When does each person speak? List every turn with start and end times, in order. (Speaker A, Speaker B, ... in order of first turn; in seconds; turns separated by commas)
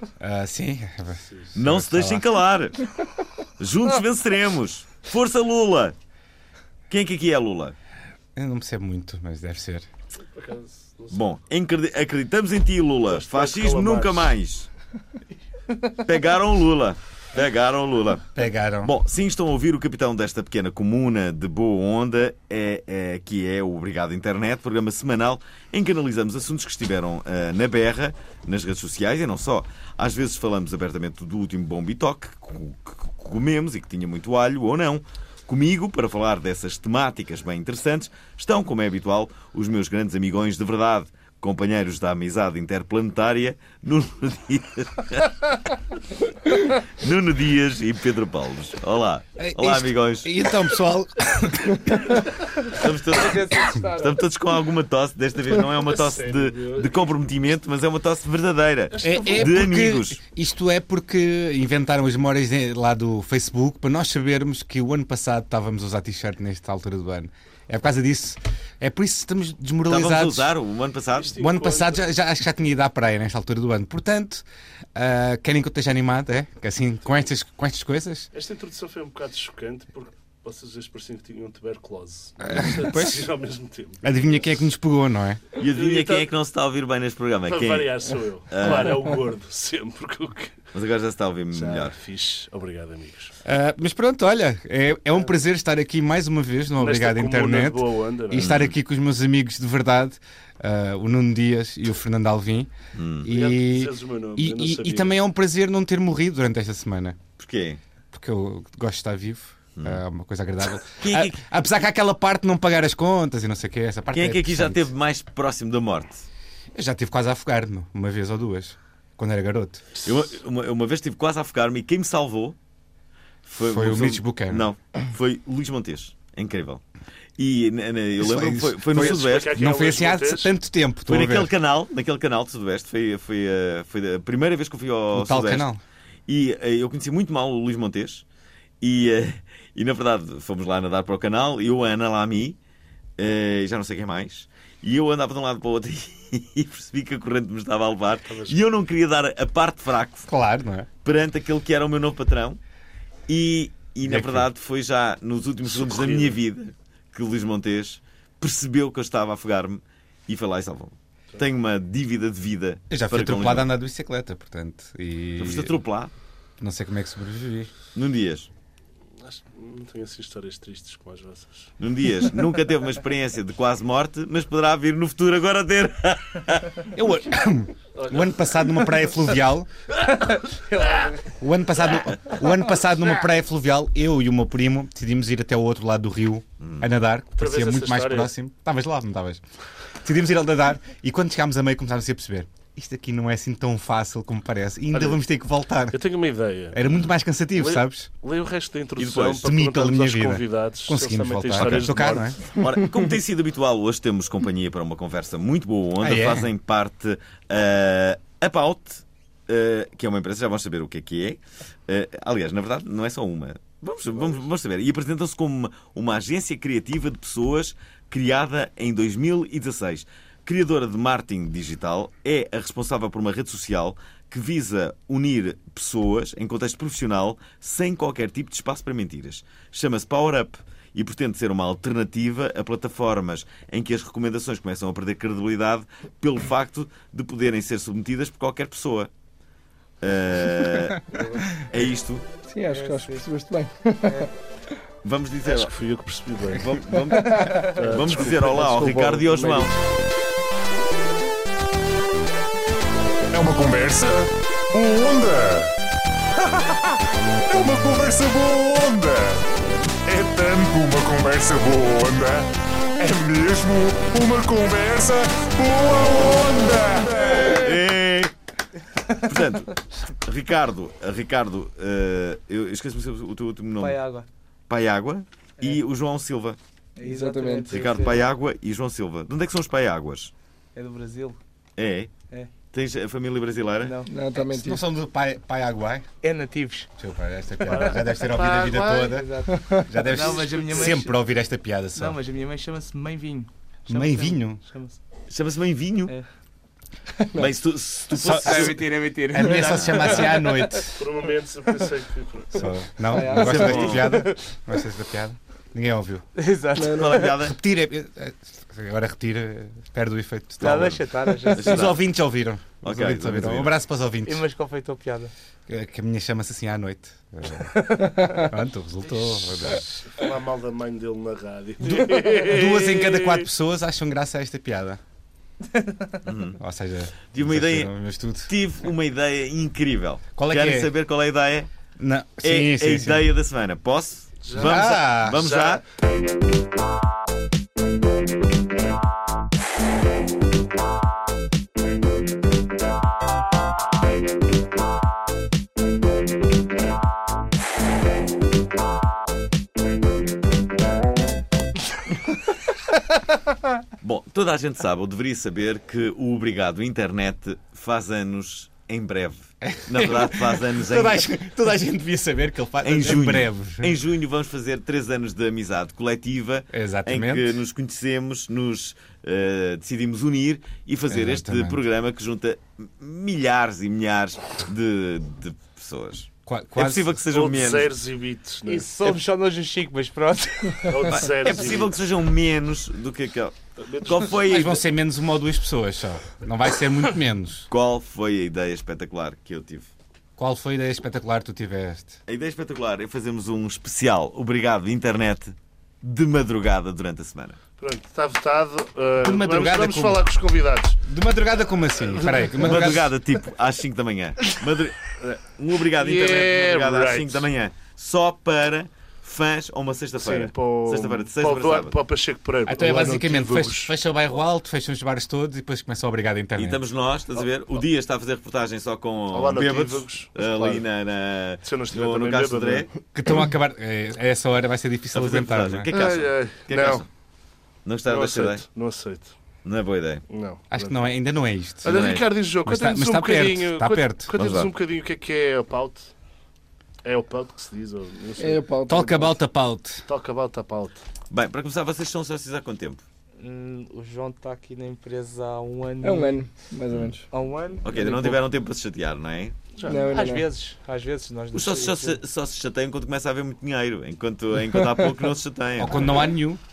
Speaker A: 0.2-2.3, Speaker B: 1.6-2.9, Speaker B: 3.6-6.0, Speaker B: 6.9-7.8, Speaker A: 8.3-9.9, Speaker C: 10.3-11.2, Speaker B: 11.1-14.7, Speaker C: 13.1-14.3, Speaker B: 16.0-45.5, Speaker A: 18.4-18.9, Speaker B: 46.5-50.3, Speaker A: 49.4-52.2, Speaker B: 52.7-60.2, Speaker D: 53.1-54.2, Speaker C: 55.9-57.1, Speaker C: 58.9-59.5, Speaker A: 59.0-70.5, Speaker B: 69.9-71.3, Speaker C: 71.2-72.1, Speaker A: 71.3-78.3, Speaker C: 78.3-84.0, Speaker A: 82.4-83.3, Speaker A: 84.0-85.4, Speaker B: 85.6-89.1, Speaker C: 85.6-86.3, Speaker C: 87.5-90.6, Speaker B: 90.7-92.0, Speaker C: 91.5-93.4, Speaker A: 93.5-107.2, Speaker C: 96.8-98.5, Speaker B: 98.3-98.8, Speaker B: 102.9-103.3, Speaker C: 103.3-105.1, Speaker B: 107.4-107.8, Speaker A: 108.1-114.9, Speaker B: 109.8-110.0, Speaker B: 111.0-111.5, Speaker B: 114.1-116.3, Speaker A: 116.7-119.8, Speaker B: 120.0-122.6, Speaker B: 123.5-126.8, Speaker A: 123.6-124.7, Speaker B: 127.4-129.6, Speaker A: 128.2-131.5, Speaker C: 128.9-130.6, Speaker B: 131.1-135.7, Speaker A: 135.1-135.8, Speaker B: 136.3-138.2, Speaker B: 138.8-142.6, Speaker B: 143.2-150.3, Speaker C: 148.3-148.6, Speaker A: 150.3-150.9, Speaker B: 151.0-152.6, Speaker B: 153.3-163.7, Speaker A: 154.0-154.5, Speaker C: 155.7-156.4, Speaker A: 162.9-165.8, Speaker B: 165.4-166.1, Speaker A: 166.6-167.7, Speaker B: 167.9-168.5, Speaker C: 169.2-171.7, Speaker B: 171.8-176.8, Speaker A: 176.9-179.7, Speaker C: 178.0-178.3, Speaker D: 180.2-181.3, Speaker A: 181.3-189.4, Speaker B: 186.6-186.9, Speaker C: 187.4-188.3, Speaker A: 190.0-196.0, Speaker C: 194.9-195.2, Speaker C: 195.9-196.8, Speaker A: 196.7-198.1, Speaker C: 197.6-202.4, Speaker B: 199.0-199.5, Speaker A: 199.4-202.4, Speaker B: 201.5-239.1, Speaker A: 206.0-206.5, Speaker C: 214.1-214.4, Speaker B: 240.0-242.3, Speaker C: 241.1-241.9, Speaker E: 242.5-244.3, Speaker D: 242.7-243.2, Speaker D: 244.0-244.3, Speaker B: 245.0-245.7, Speaker C: 245.4-246.8, Speaker B: 246.5-249.7, Speaker D: 247.1-247.8, Speaker C: 247.8-249.8, Speaker F: 253.3-255.7, Speaker F: 256.4-257.0, Speaker F: 257.5-259.5, Speaker F: 260.1-267.7, Speaker B: 267.4-268.3, Speaker D: 269.0-269.3, Speaker B: 269.2-274.0, Speaker D: 273.8-274.3, Speaker B: 274.7-276.6, Speaker D: 277.0-278.2, Speaker E: 277.0-277.8, Speaker B: 277.7-280.3, Speaker D: 280.8-281.4, Speaker B: 281.8-282.1, Speaker B: 282.7-284.0, Speaker D: 283.8-284.1, Speaker E: 284.1-284.8, Speaker A: 284.4-286.1, Speaker D: 286.2-286.9, Speaker A: 287.0-292.2, Speaker D: 287.6-288.0, Speaker C: 287.7-289.1, Speaker D: 288.9-291.2, Speaker E: 289.5-289.9, Speaker C: 290.2-290.9, Speaker D: 291.9-295.0, Speaker A: 293.9-294.6, Speaker B: 295.3-296.1, Speaker B: 297.4-298.8, Speaker A: 298.1-301.0, Speaker D: 298.4-300.9, Speaker B: 299.5-300.2, Speaker C: 300.9-302.7, Speaker A: 302.6-306.3, Speaker D: 303.1-304.6, Speaker E: 303.1-303.9, Speaker B: 303.4-304.1, Speaker D: 306.4-307.3, Speaker E: 306.8-307.1, Speaker B: 306.9-307.6, Speaker A: 307.4-310.9, Speaker B: 310.6-312.0, Speaker D: 310.6-311.8, Speaker A: 311.6-314.4, Speaker B: 312.8-313.8, Speaker D: 314.2-315.3, Speaker A: 315.7-320.1, Speaker D: 317.6-318.4, Speaker C: 320.1-323.4, Speaker A: 321.9-325.0, Speaker D: 325.7-326.0, Speaker B: 326.2-326.6, Speaker A: 326.6-328.5, Speaker B: 327.3-327.9, Speaker B: 328.5-331.7, Speaker A: 330.4-330.9, Speaker A: 332.0-333.3, Speaker B: 332.4-335.8, Speaker C: 334.4-335.8, Speaker A: 334.6-335.5, Speaker B: 354.0-361.3, Speaker A: 359.6-363.9, Speaker B: 362.8-377.9, Speaker A: 366.7-367.6, Speaker A: 371.1-371.8, Speaker A: 376.5-377.2, Speaker C: 377.3-379.0, Speaker D: 378.6-381.2, Speaker C: 380.9-381.9, Speaker B: 381.0-384.8, Speaker C: 383.8-384.7, Speaker A: 384.5-387.7, Speaker B: 387.7-389.9, Speaker A: 390.4-392.2, Speaker B: 392.3-397.6, Speaker C: 397.8-401.0, Speaker A: 399.2-400.3, Speaker A: 401.0-403.1, Speaker C: 402.1-402.7, Speaker B: 402.6-412.0, Speaker C: 405.1-407.5, Speaker C: 410.2-413.9, Speaker A: 412.7-416.8, Speaker B: 416.6-422.9, Speaker C: 419.3-420.8, Speaker C: 421.6-422.9, Speaker A: 423.1-425.9, Speaker B: 425.1-427.1, Speaker C: 425.9-427.0, Speaker B: 427.9-428.6, Speaker C: 428.1-429.3, Speaker B: 429.6-430.2, Speaker C: 430.3-431.0, Speaker A: 430.7-434.4, Speaker C: 431.8-436.1, Speaker B: 431.9-432.3, Speaker B: 434.4-434.7, Speaker C: 437.0-438.6, Speaker E: 438.4-439.4, Speaker A: 438.9-440.1, Speaker C: 440.1-441.0, Speaker B: 441.3-443.0, Speaker D: 443.4-446.4, Speaker E: 446.0-447.3, Speaker D: 447.3-448.4, Speaker B: 447.8-449.6, Speaker C: 449.8-450.1, Speaker E: 449.8-450.5, Speaker D: 449.9-452.2, Speaker B: 451.5-456.3, Speaker A: 455.8-456.6